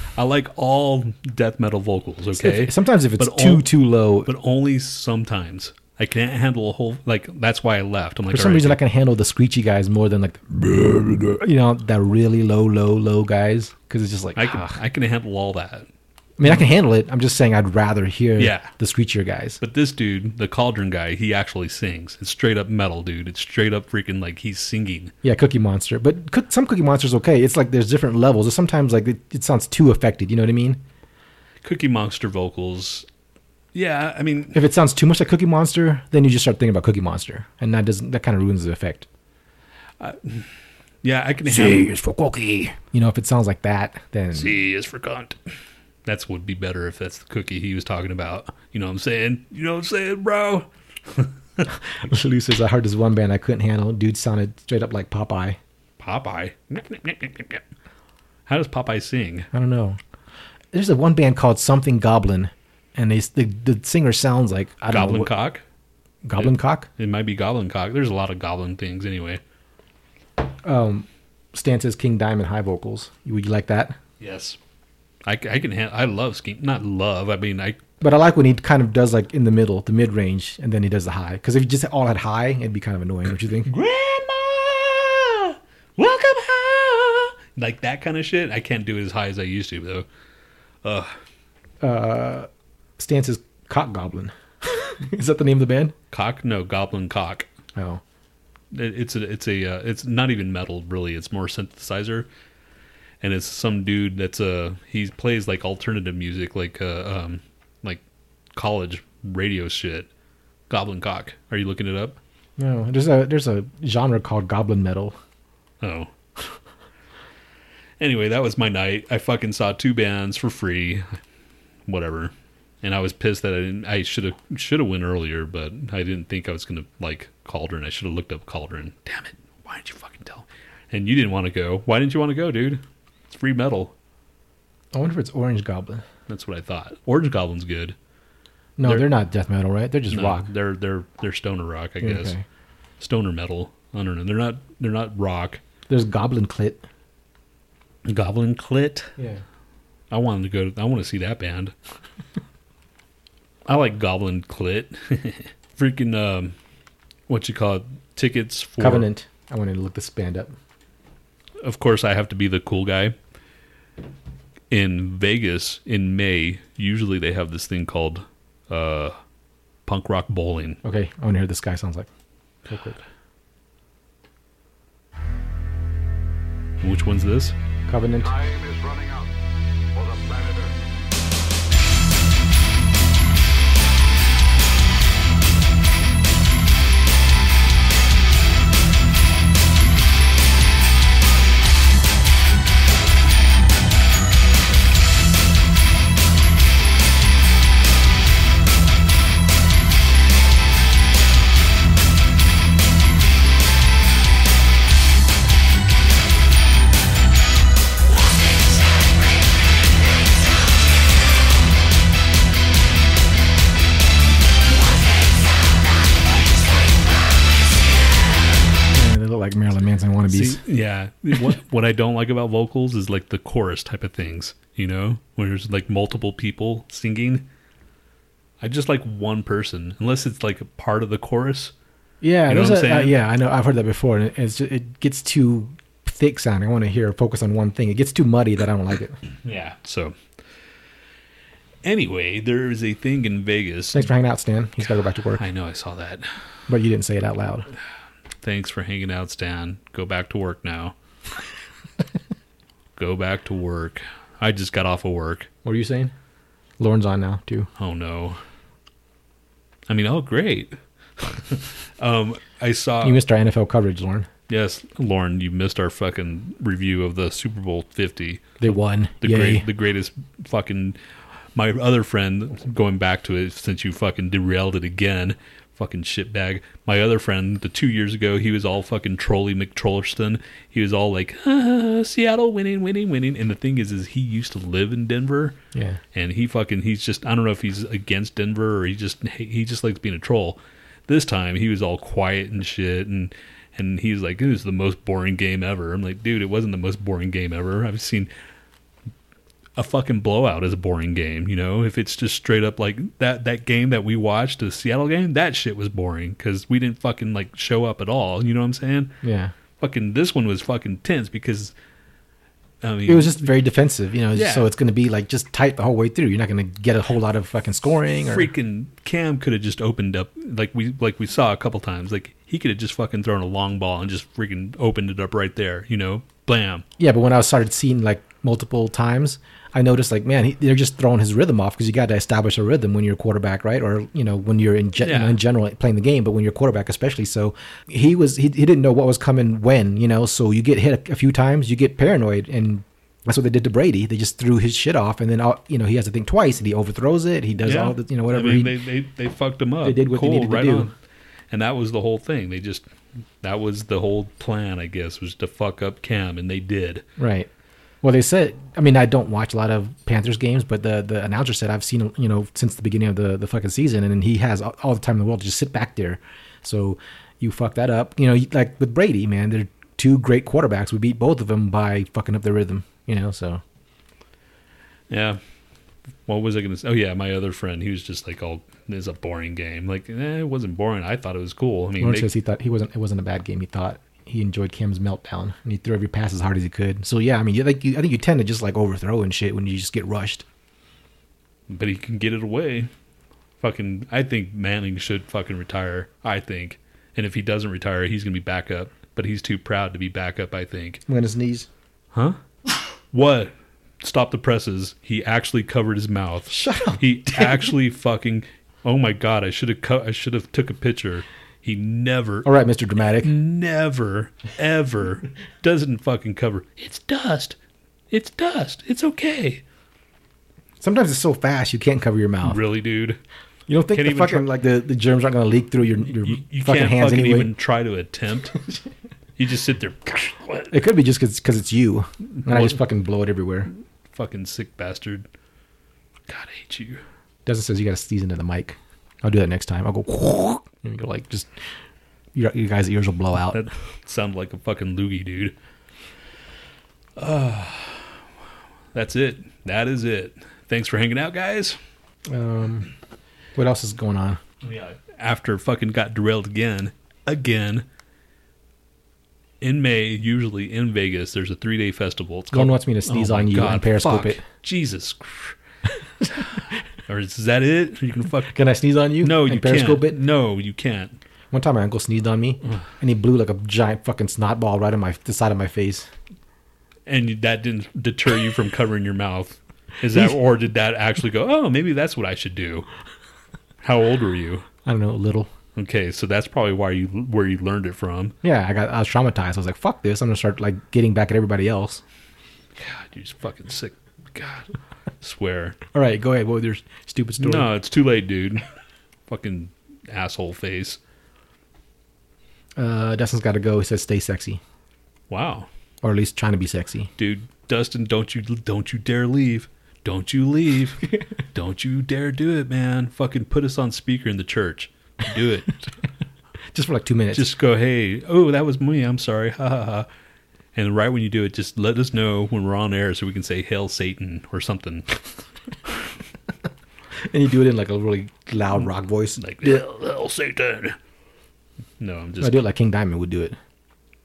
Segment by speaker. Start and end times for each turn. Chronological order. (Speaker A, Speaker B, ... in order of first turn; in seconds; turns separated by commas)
Speaker A: 0.1-8.8, Speaker B: 2.4-4.3, Speaker B: 8.3-14.8, Speaker A: 14.4-15.9, Speaker B: 16.4-19.6, Speaker A: 18.4-18.7, Speaker A: 19.6-25.1, Speaker B: 25.2-30.8, Speaker A: 31.6-33.1, Speaker A: 33.7-34.6, Speaker B: 34.5-39.1, Speaker A: 40.0-40.5, Speaker A: 41.0-42.0, Speaker B: 41.5-44.5, Speaker A: 44.3-45.4, Speaker A: 46.1-51.7, Speaker B: 51.7-55.6, Speaker A: 56.0-57.6, Speaker A: 58.5-59.5, Speaker B: 59.5-60.0, Speaker B: 60.7-65.3, Speaker A: 64.9-65.6, Speaker B: 66.2-66.9, Speaker A: 66.4-69.4, Speaker B: 70.6-74.0, Speaker A: 74.2-74.6, Speaker A: 75.3-77.8, Speaker B: 78.0-83.7, Speaker A: 83.7-90.1, Speaker A: 90.8-91.1, Speaker B: 91.8-96.0, Speaker A: 96.1-97.5, Speaker B: 97.8-98.0, Speaker A: 98.7-102.3, Speaker A: 103.2-108.0, Speaker A: 108.5-110.1, Speaker A: 110.7-112.2, Speaker B: 112.6-115.2, Speaker A: 115.8-116.1, Speaker A: 118.0-121.2, Speaker A: 121.9-133.9, Speaker B: 134.9-136.0, Speaker A: 136.3-138.0, Speaker B: 138.8-140.5, Speaker A: 138.8-139.1, Speaker A: 140.1-142.3, Speaker B: 142.0-142.4, Speaker A: 143.0-145.6, Speaker B: 145.9-146.9, Speaker A: 148.1-149.1, Speaker B: 149.2-149.4, Speaker A: 150.1-151.7, Speaker A: 153.7-156.6, Speaker A: 157.3-159.1, Speaker B: 158.8-160.5, Speaker A: 161.6-163.2, Speaker A: 164.7-169.2, Speaker A: 169.9-170.8, Speaker B: 170.8-172.1, Speaker B: 172.7-173.0, Speaker A: 176.8-177.6, Speaker B: 177.9-178.4, Speaker C: 178.2-179.3, Speaker C: 179.9-180.8, Speaker B: 218.9-220.6, Speaker A: 220.3-227.5, Speaker A: 228.6-231.7, Speaker B: 232.2-239.2, Speaker A: 232.5-233.2, Speaker A: 239.4-240.2, Speaker A: 241.8-244.1, Speaker B: 243.9-245.4, Speaker A: 245.3-246.3, Speaker B: 246.7-247.7, Speaker A: 248.4-250.9, Speaker A: 253.0-255.5, Speaker B: 255.6-256.1, Speaker B: 256.8-257.7, Speaker A: 257.8-258.4, Speaker A: 259.9-263.2, Speaker B: 263.0-264.3, Speaker A: 264.5-268.6, Speaker B: 268.6-269.7, Speaker A: 269.2-271.0, Speaker A: 271.6-285.6, Speaker B: 285.7-286.0, Speaker A: 286.1-298.3, Speaker A: 299.8-309.2, Speaker B: 309.2-309.5, Speaker A: 309.8-311.7, Speaker A: 312.8-313.5, Speaker B: 313.1-318.5, Speaker A: 314.3-314.7, Speaker A: 318.2-326.9, Speaker B: 327.0-348.8, Speaker A: 335.0-335.4, Speaker A: 347.6-350.9, Speaker B: 349.8-350.9, Speaker A: 351.5-352.9, Speaker A: 353.4-357.1, Speaker B: 357.2-357.5, Speaker B: 358.0-373.6, Speaker A: 375.1-375.4, Speaker A: 376.3-382.3, Speaker B: 382.0-390.4, Speaker A: 391.7-392.9, Speaker A: 393.6-401.0, Speaker B: 401.1-401.7, Speaker A: 402.1-402.4, Speaker A: 403.1-412.5, Speaker B: 406.5-407.7, Speaker B: 412.4-413.3, Speaker A: 413.2-417.6, Speaker A: 418.1-419.6, Speaker B: 420.8-422.6, Speaker A: 422.4-423.2, Speaker B: 423.7-427.5, Speaker A: 423.9-424.5, Speaker A: 426.2-428.6, Speaker A: 429.4-430.8, Speaker B: 430.7-433.7, Speaker A: 432.4-432.8, Speaker A: 434.1-435.3, Speaker A: 436.3-437.0, Speaker B: 437.5-441.5, Speaker B: 442.3-443.6, Speaker A: 443.5-445.6, Speaker A: 447.2-448.2, Speaker A: 448.9-451.8, Speaker B: 452.3-452.9, Speaker B: 453.6-454.4, Speaker A: 454.6-457.9, Speaker A: 459.6-465.6, Speaker B: 462.5-464.4, Speaker A: 466.4-468.6, Speaker B: 468.5-470.2, Speaker A: 469.2-471.2, Speaker B: 471.5-476.1, Speaker A: 477.1-482.9, Speaker A: 483.8-484.7, Speaker B: 484.9-485.5, Speaker A: 485.8-488.4, Speaker B: 488.4-492.0, Speaker A: 492.8-495.8, Speaker B: 495.9-497.7, Speaker A: 497.4-498.6, Speaker A: 499.3-501.0, Speaker B: 502.8-504.6, Speaker A: 505.3-505.7, Speaker B: 506.0-507.1, Speaker A: 507.2-515.9, Speaker B: 516.7-517.5, Speaker A: 517.3-520.1, Speaker A: 520.8-525.1, Speaker B: 527.2-529.8, Speaker A: 529.4-531.0, Speaker A: 532.0-532.6, Speaker B: 532.4-533.6